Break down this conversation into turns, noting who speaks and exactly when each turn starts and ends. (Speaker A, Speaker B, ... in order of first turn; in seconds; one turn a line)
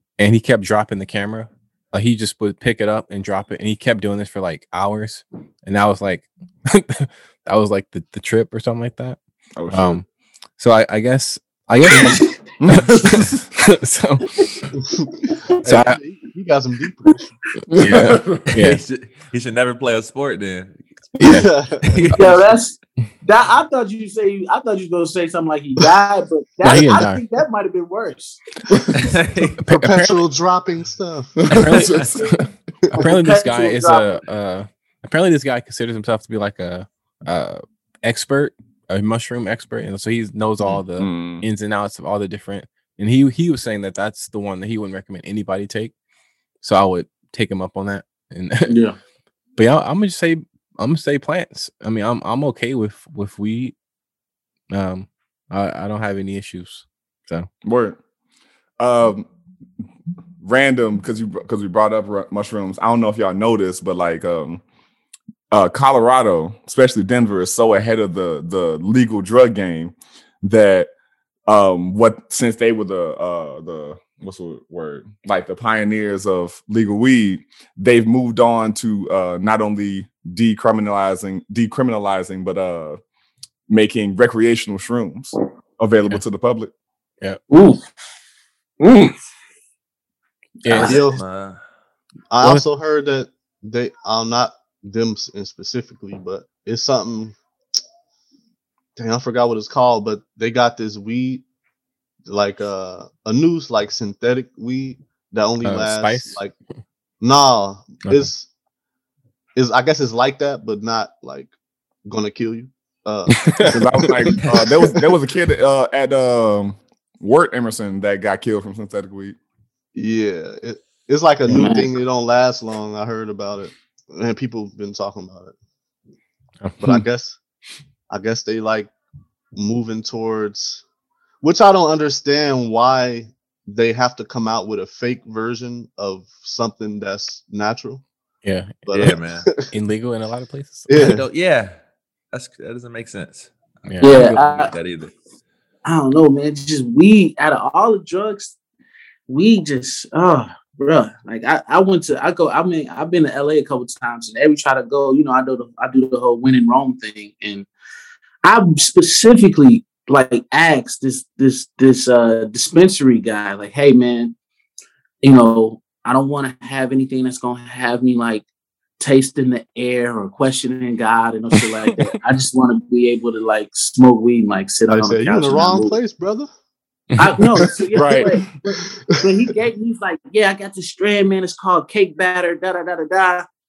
Speaker A: 0.2-9.2
Speaker B: 9.6-10.0
Speaker A: 9.7-10.1
Speaker A: 10.6-14.3
Speaker B: 12.6-13.4
Speaker C: 14.8-17.3
Speaker A: 15.7-16.0
Speaker B: 17.7-18.5
Speaker A: 17.8-18.8
Speaker D: 18.4-21.1
Speaker C: 21.2-22.0
Speaker A: 21.2-21.5
Speaker D: 21.8-22.4
Speaker E: 22.1-28.4
Speaker A: 26.6-27.2
Speaker B: 28.7-29.1
Speaker D: 29.0-29.6
Speaker A: 29.6-30.2
Speaker C: 29.7-31.6
Speaker B: 31.4-32.5
Speaker A: 31.5-32.4
Speaker A: 33.0-45.9
Speaker E: 33.1-34.2
Speaker B: 41.0-41.5
Speaker A: 46.6-48.7
Speaker E: 48.7-49.0
Speaker A: 49.6-53.8
Speaker A: 54.7-57.5
Speaker B: 57.6-58.0
Speaker B: 58.8-59.3
Speaker B: 60.4-64.6
Speaker B: 65.5-70.9
Speaker B: 71.5-83.0
Speaker B: 83.7-86.7
Speaker E: 87.5-87.8
Speaker E: 88.8-89.2
Speaker A: 90.7-91.0
Speaker E: 90.7-91.2
Speaker C: 90.8-91.2
Speaker D: 90.8-91.6
Speaker C: 92.3-97.4
Speaker C: 99.0-101.4
Speaker C: 102.3-106.5
Speaker A: 105.6-106.4
Speaker C: 107.2-108.5
Speaker A: 108.0-108.3
Speaker C: 109.6-111.5
Speaker C: 112.0-113.8
Speaker A: 113.3-114.3
Speaker B: 113.7-119.4
Speaker C: 120.0-125.5
Speaker E: 121.5-121.9
Speaker A: 126.6-127.0
Speaker C: 126.8-127.4
Speaker C: 128.1-128.9
Speaker C: 129.6-130.8
Speaker C: 131.4-138.0
Speaker A: 138.4-139.2
Speaker C: 138.9-139.7
Speaker D: 138.9-139.6
Speaker A: 139.7-141.1
Speaker C: 140.9-141.2
Speaker D: 140.9-141.8
Speaker D: 142.3-145.2
Speaker A: 143.8-144.5
Speaker E: 144.0-144.7
Speaker E: 145.8-148.6
Speaker E: 149.3-157.7
Speaker E: 158.4-164.3
Speaker E: 165.2-168.5
Speaker E: 169.0-176.0
Speaker C: 174.9-176.5
Speaker E: 177.2-183.5
Speaker B: 178.0-178.4
Speaker C: 178.7-179.3